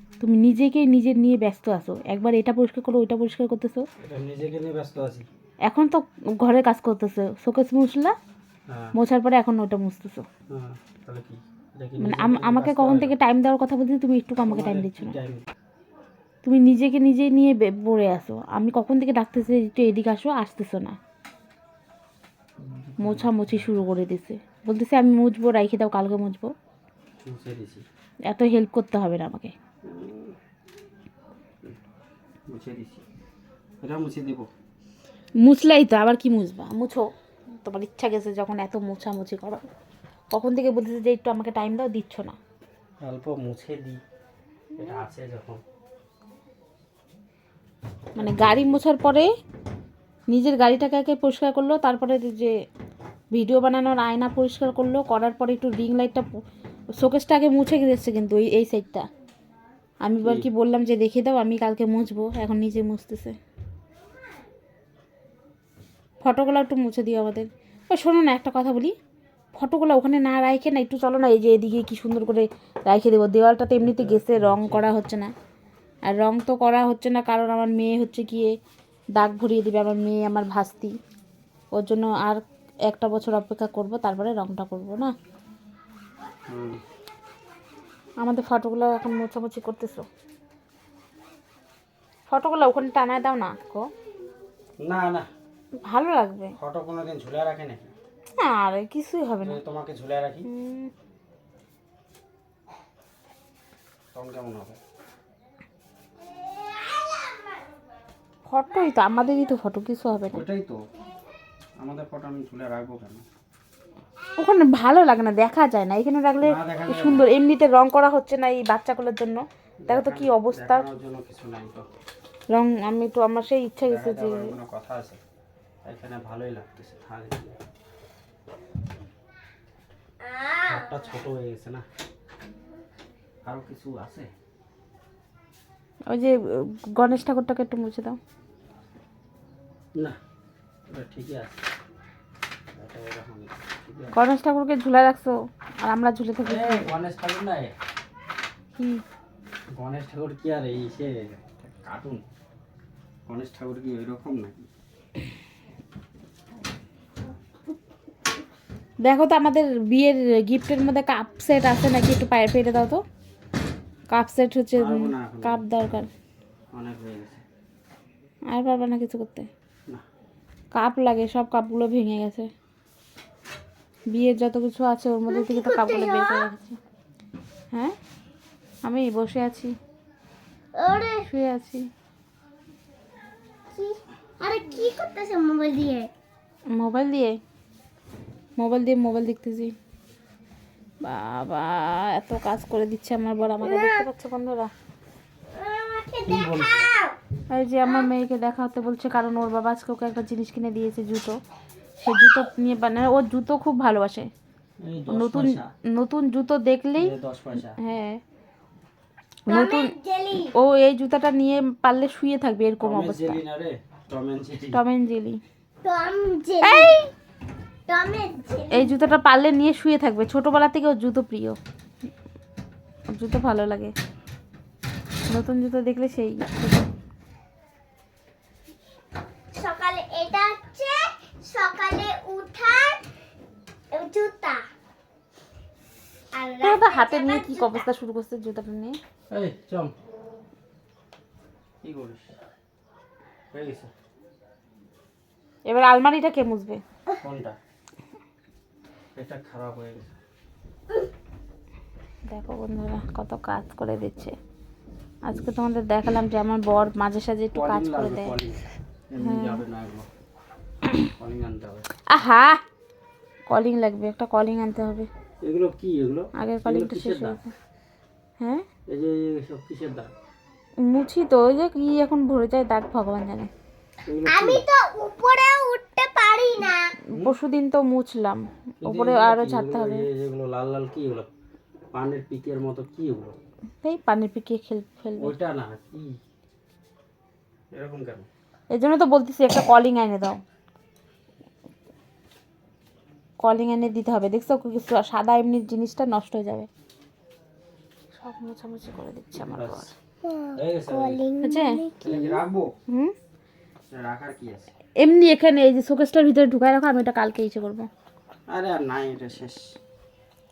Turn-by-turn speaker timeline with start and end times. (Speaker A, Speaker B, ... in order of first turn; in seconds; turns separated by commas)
Speaker A: 0.2-3.8, Speaker B: 4.0-5.3, Speaker A: 5.7-8.2, Speaker B: 8.7-8.9, Speaker A: 8.9-10.2, Speaker B: 10.5-13.2, Speaker A: 12.0-15.2, Speaker B: 14.4-15.5, Speaker A: 16.4-21.0, Speaker B: 22.6-23.8, Speaker A: 23.0-26.5, Speaker B: 27.2-27.9, Speaker A: 28.3-29.5, Speaker B: 29.8-30.4, Speaker B: 32.5-33.0, Speaker B: 33.8-34.5, Speaker A: 35.4-37.1, Speaker A: 37.6-39.6, Speaker A: 40.3-42.4, Speaker B: 43.0-44.0, Speaker B: 44.8-45.6, Speaker A: 48.1-49.3, Speaker B: 48.2-48.8, Speaker A: 50.3-52.5, Speaker A: 53.3-56.4, Speaker A: 57.0-59.0, Speaker A: 60.0-63.4, Speaker B: 60.2-60.5, Speaker A: 66.2-68.9, Speaker A: 69.5-75.3, Speaker B: 73.8-74.9, Speaker A: 76.1-78.5, Speaker A: 79.2-80.9, Speaker A: 81.7-85.1, Speaker B: 86.5-86.8, Speaker A: 88.2-90.0, Speaker A: 92.3-93.8, Speaker B: 94.8-95.3, Speaker A: 95.8-96.5, Speaker B: 96.6-97.9, Speaker A: 98.4-99.6, Speaker B: 99.4-100.5, Speaker A: 100.5-100.9, Speaker B: 104.1-104.8, Speaker A: 108.5-110.4, Speaker B: 110.3-110.8, Speaker B: 111.8-113.2, Speaker A: 114.4-120.8, Speaker B: 116.4-117.3, Speaker B: 119.8-121.9, Speaker A: 122.5-124.6, Speaker B: 123.8-125.2, Speaker B: 125.8-127.6, Speaker B: 130.6-131.8, Speaker B: 133.4-134.3, Speaker A: 136.9-138.2, Speaker B: 140.9-141.6, Speaker B: 142.7-144.2, Speaker A: 144.1-146.9, Speaker B: 146.4-147.7, Speaker A: 148.8-149.0, Speaker B: 149.7-152.2, Speaker B: 153.3-154.7, Speaker A: 159.0-163.0, Speaker A: 164.1-166.1, Speaker B: 164.8-165.7, Speaker B: 166.7-167.4, Speaker A: 168.5-169.5, Speaker A: 170.7-172.5, Speaker A: 174.1-176.8, Speaker C: 175.3-176.5, Speaker A: 178.8-179.7, Speaker C: 180.7-181.3, Speaker A: 181.2-181.8, Speaker C: 183.7-186.1, Speaker A: 186.7-187.4, Speaker A: 188.6-189.7, Speaker A: 191.0-194.7, Speaker C: 193.6-194.0, Speaker C: 195.5-197.1, Speaker B: 196.2-196.9, Speaker A: 197.5-201.3, Speaker A: 202.0-204.3, Speaker B: 204.8-205.7, Speaker A: 205.1-207.1, Speaker B: 207.0-207.8, Speaker A: 207.7-208.2, Speaker A: 209.5-209.9, Speaker C: 209.5-210.5, Speaker A: 210.5-213.4, Speaker B: 212.8-214.8, Speaker A: 214.7-215.4, Speaker C: 215.8-217.0, Speaker A: 216.6-217.0, Speaker C: 217.9-219.0, Speaker A: 218.7-221.6, Speaker A: 223.1-223.9, Speaker A: 225.3-226.9, Speaker C: 229.5-233.1, Speaker C: 233.9-234.6, Speaker C: 236.3-237.8, Speaker A: 236.6-239.0, Speaker B: 239.3-239.9, Speaker B: 241.8-242.3, Speaker B: 243.5-243.9, Speaker A: 245.7-246.8, Speaker B: 247.2-247.6, Speaker B: 249.1-250.2, Speaker A: 252.3-254.3, Speaker A: 255.2-258.4, Speaker B: 257.5-260.1, Speaker A: 259.2-259.6, Speaker B: 261.0-261.9, Speaker A: 262.1-262.6, Speaker A: 263.5-265.1, Speaker B: 265.4-267.4, Speaker A: 266.4-267.5, Speaker A: 268.4-268.6, Speaker B: 268.9-270.1, Speaker A: 270.8-273.5, Speaker B: 274.0-274.6, Speaker C: 274.2-277.0, Speaker A: 277.1-280.1, Speaker B: 278.8-281.3, Speaker B: 281.9-283.4, Speaker A: 283.8-285.3, Speaker B: 285.2-286.2, Speaker B: 287.7-288.3, Speaker A: 288.7-290.4, Speaker A: 293.4-296.7, Speaker A: 298.1-299.9, Speaker B: 299.3-299.9, Speaker C: 300.2-302.4, Speaker B: 300.6-301.2, Speaker A: 301.4-301.8, Speaker B: 302.0-302.7, Speaker B: 303.9-304.7, Speaker A: 305.0-307.9, Speaker B: 308.5-309.7